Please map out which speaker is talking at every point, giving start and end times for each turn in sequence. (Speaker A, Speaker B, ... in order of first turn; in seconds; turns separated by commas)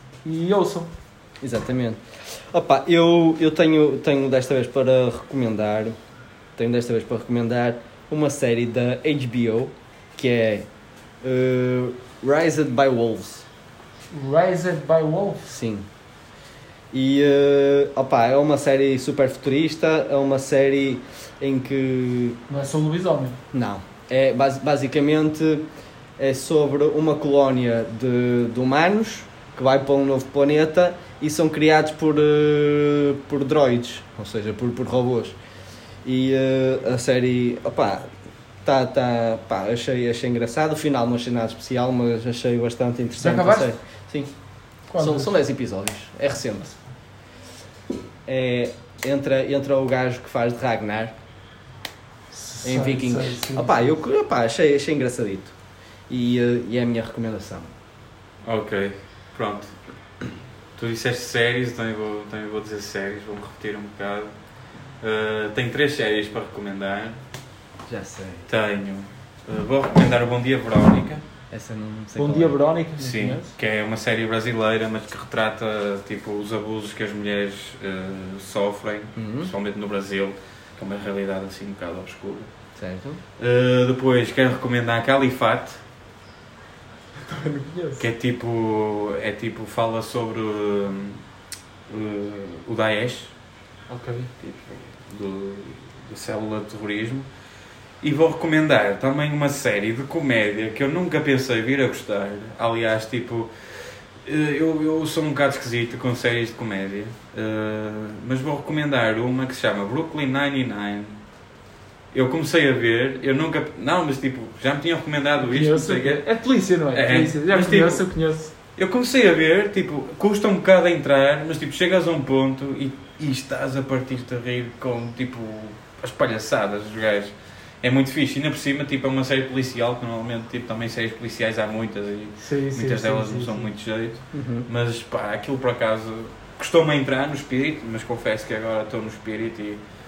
Speaker A: 0.2-0.9, Speaker B: 1.4-2.0, Speaker B: 2.5-5.9, Speaker B: 6.6-10.7, Speaker B: 11.2-13.4, Speaker A: 14.1-15.5, Speaker B: 15.5-15.8, Speaker B: 16.9-22.4, Speaker A: 22.5-23.4, Speaker B: 23.5-25.6, Speaker B: 26.2-35.3, Speaker B: 36.0-38.1, Speaker B: 38.6-44.3, Speaker A: 43.2-43.7, Speaker A: 44.9-45.4, Speaker B: 45.0-46.6, Speaker B: 48.3-51.1, Speaker A: 52.3-53.9, Speaker B: 52.6-55.5, Speaker B: 56.1-57.7, Speaker C: 58.4-59.7, Speaker C: 60.8-64.3, Speaker C: 65.0-67.2, Speaker B: 67.9-68.5, Speaker C: 68.5-71.2, Speaker B: 71.5-72.6, Speaker A: 72.2-73.5, Speaker C: 73.0-82.5, Speaker B: 79.2-79.5, Speaker B: 82.8-83.2, Speaker C: 83.4-85.8, Speaker A: 87.3-88.0, Speaker C: 88.0-91.2, Speaker C: 91.9-93.3, Speaker A: 93.9-94.3, Speaker C: 94.4-97.3, Speaker C: 98.0-103.5, Speaker C: 104.2-111.2, Speaker C: 112.1-116.2, Speaker A: 115.4-118.5, Speaker C: 116.9-118.1, Speaker C: 118.8-139.8, Speaker A: 132.4-133.7, Speaker B: 134.3-134.7